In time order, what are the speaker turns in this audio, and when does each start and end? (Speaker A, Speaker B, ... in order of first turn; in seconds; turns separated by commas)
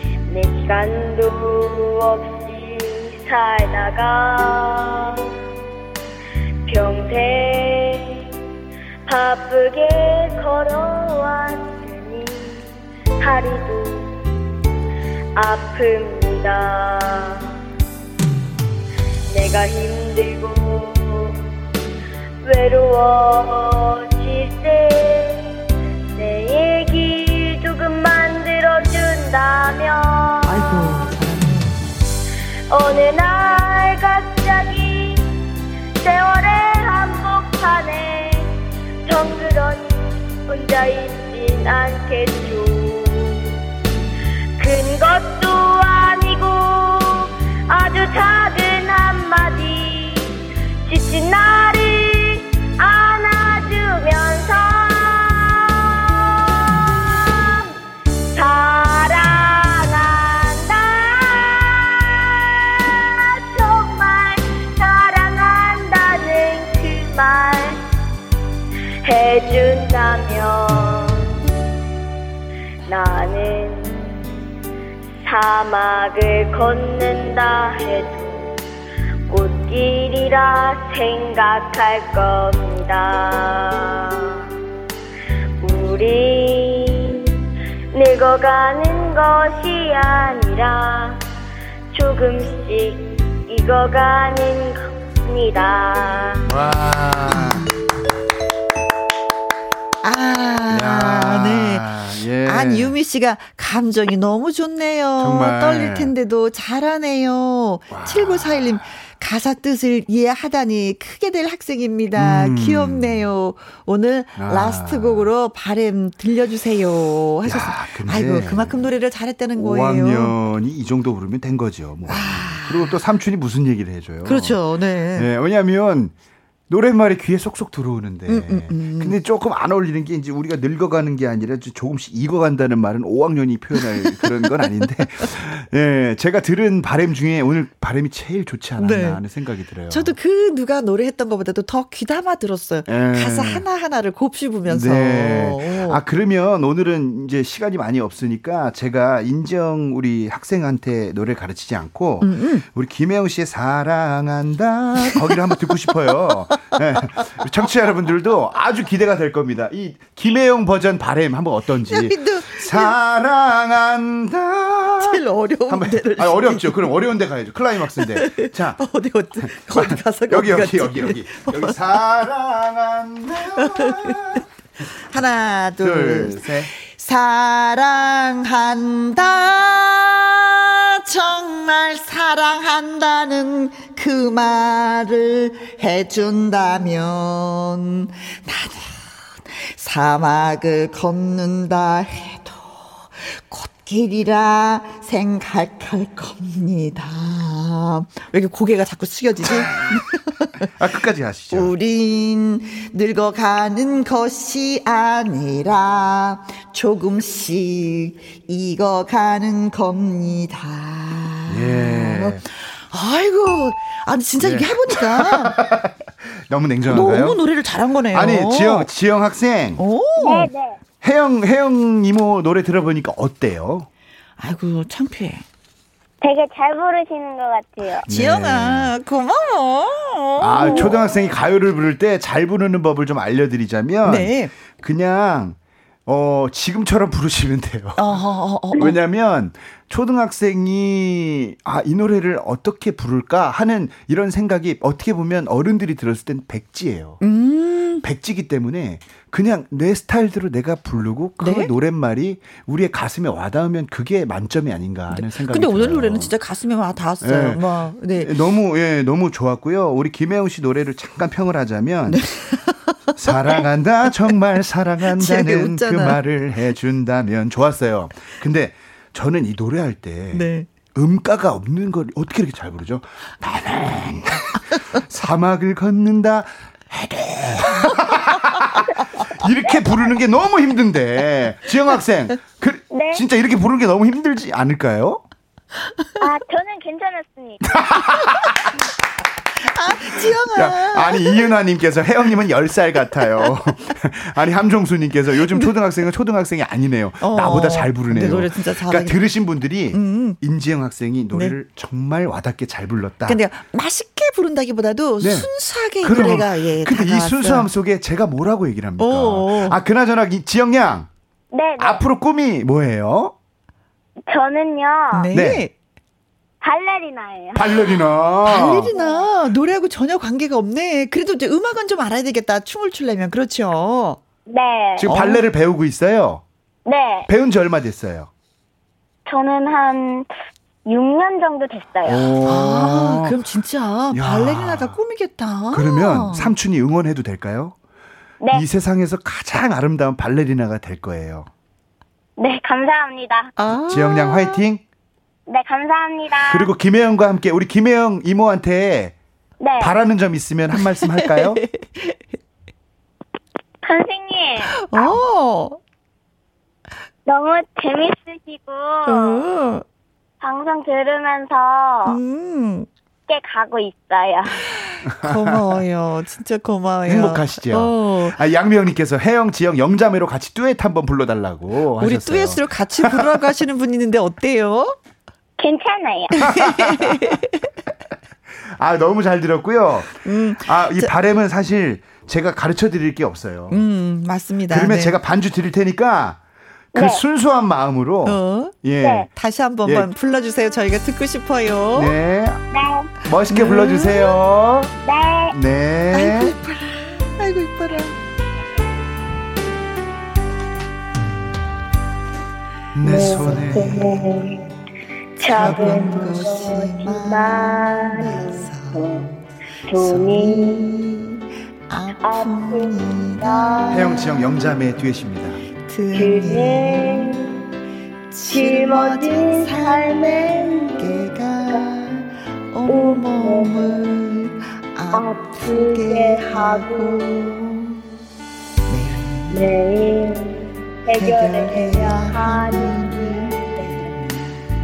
Speaker A: 0.3-5.2, Speaker A: 6.7-8.2, Speaker A: 9.1-12.7, Speaker A: 13.2-14.1, Speaker A: 15.4-17.5, Speaker A: 19.3-21.4, Speaker A: 22.4-25.5, Speaker A: 26.1-30.9, Speaker B: 30.4-31.8, Speaker A: 32.7-35.3, Speaker A: 36.0-38.5, Speaker A: 39.0-43.5, Speaker A: 44.6-57.7, Speaker A: 58.3-67.8, Speaker A: 69.0-71.3, Speaker A: 72.8-74.2, Speaker A: 75.2-78.6, Speaker A: 79.3-84.4, Speaker A: 85.6-87.3, Speaker A: 87.9-91.2, Speaker A: 91.9-96.5, Speaker C: 96.5-97.6, Speaker B: 100.0-101.9, Speaker C: 100.7-102.9, Speaker B: 102.4-120.4, Speaker C: 105.2-106.1, Speaker C: 107.9-108.8, Speaker C: 112.2-113.2, Speaker C: 114.4-115.3, Speaker C: 117.4-118.9, Speaker C: 119.5-124.6, Speaker B: 122.1-123.0, Speaker B: 124.2-125.3, Speaker C: 125.1-126.1, Speaker C: 126.7-140.2, Speaker B: 128.3-129.2, Speaker B: 133.8-134.7, Speaker B: 138.8-139.2, Speaker B: 139.9-146.0, Speaker C: 142.9-143.6, Speaker C: 144.7-168.8, Speaker B: 152.2-152.7, Speaker B: 161.9-162.9, Speaker B: 165.0-166.9, Speaker B: 168.0-171.8, Speaker C: 169.4-174.4, Speaker B: 173.6-174.4, Speaker B: 175.0-189.0, Speaker C: 175.8-176.7, Speaker B: 189.5-200.7, Speaker C: 199.4-199.7, Speaker C: 200.8-201.7, Speaker B: 201.5-215.6, Speaker C: 211.5-212.4, Speaker C: 214.4-217.4, Speaker B: 216.9-218.9, Speaker C: 218.1-219.8, Speaker B: 219.8-220.5, Speaker A: 220.2-220.8, Speaker C: 221.0-223.9, Speaker B: 224.4-225.4, Speaker A: 226.2-228.1, Speaker C: 228.1-228.9, Speaker B: 228.1-231.0, Speaker C: 230.4-238.0, Speaker A: 230.6-230.9, Speaker B: 234.0-234.5, Speaker B: 238.0-238.9, Speaker C: 238.8-247.2, Speaker B: 247.2-248.1, Speaker C: 248.0-256.3, Speaker B: 251.4-251.7, Speaker B: 255.1-258.3, Speaker C: 257.2-262.2, Speaker B: 262.1-263.6, Speaker C: 263.2-285.2, Speaker B: 265.0-266.2, Speaker B: 270.3-270.7, Speaker B: 277.9-278.4, Speaker A: 282.9-283.2, Speaker A: 286.2-288.3, Speaker C: 287.6-288.7, Speaker B: 289.6-291.5, Speaker C: 290.0-303.4, Speaker B: 297.2-299.3, Speaker B: 299.9-300.4, Speaker B: 301.3-301.6, Speaker B: 303.3-307.7, Speaker C: 305.2-305.5, Speaker C: 306.0-311.1, Speaker B: 309.0-309.8, Speaker A: 311.5-312.0, Speaker C: 311.8-313.3, Speaker A: 314.3-315.3, Speaker B: 315.1-315.7, Speaker C: 315.3-315.6, Speaker A: 316.6-318.1, Speaker C: 317.6-318.9, Speaker B: 318.4-324.2, Speaker A: 318.9-319.3, Speaker A: 324.5-325.1, Speaker C: 325.0-326.4, Speaker B: 325.0-325.4, Speaker A: 326.9-327.3, Speaker C: 327.3-328.3, Speaker A: 329.3-330.3, Speaker A: 330.9-332.4, Speaker C: 332.1-333.5, Speaker B: 332.4-336.5, Speaker C: 334.1-335.0, Speaker C: 335.7-337.8, Speaker A: 338.4-338.7, Speaker C: 338.5-341.5, Speaker A: 342.4-343.5, Speaker B: 343.6-344.6, Speaker C: 343.7-344.8, Speaker A: 345.5-346.7, Speaker C: 346.5-349.1, Speaker A: 349.6-350.0, Speaker C: 349.8-351.6, Speaker B: 351.0-352.1, Speaker A: 353.8-354.9, Speaker B: 354.8-355.8, Speaker A: 357.3-359.4, Speaker B: 359.1-359.8, Speaker A: 360.4-362.2, Speaker B: 362.1-362.9, Speaker A: 363.3-364.7, Speaker B: 364.8-368.4, Speaker C: 365.1-365.8, Speaker C: 367.1-373.5, Speaker B: 372.0-374.9, Speaker A: 375.6-376.4, Speaker B: 376.4-377.6, Speaker C: 376.4-377.4, Speaker C: 378.6-383.8, Speaker B: 380.2-381.1, Speaker B: 383.7-385.1, Speaker C: 384.7-386.4, Speaker A: 386.9-387.2, Speaker C: 386.9-389.3, Speaker B: 388.2-388.8, Speaker A: 389.0-389.3, Speaker B: 389.3-392.2, Speaker C: 391.9-392.6, Speaker A: 392.7-393.1, Speaker C: 393.2-394.9, Speaker B: 393.5-394.4, Speaker A: 395.1-395.6, Speaker C: 395.5-396.6, Speaker B: 396.1-398.1, Speaker C: 402.9-404.4, Speaker A: 403.0-404.6, Speaker B: 405.4-414.4, Speaker A: 405.4-409.2, Speaker C: 405.5-406.5, Speaker A: 409.9-410.8, Speaker A: 412.2-414.2, Speaker C: 413.9-415.6, Speaker B: 415.9-417.5, Speaker A: 416.1-417.5, Speaker B: 418.3-428.0, Speaker A: 418.5-421.9, Speaker A: 422.9-424.0, Speaker A: 425.1-427.3, Speaker B: 428.9-429.8, Speaker A: 429.5-434.1, Speaker B: 431.2-434.6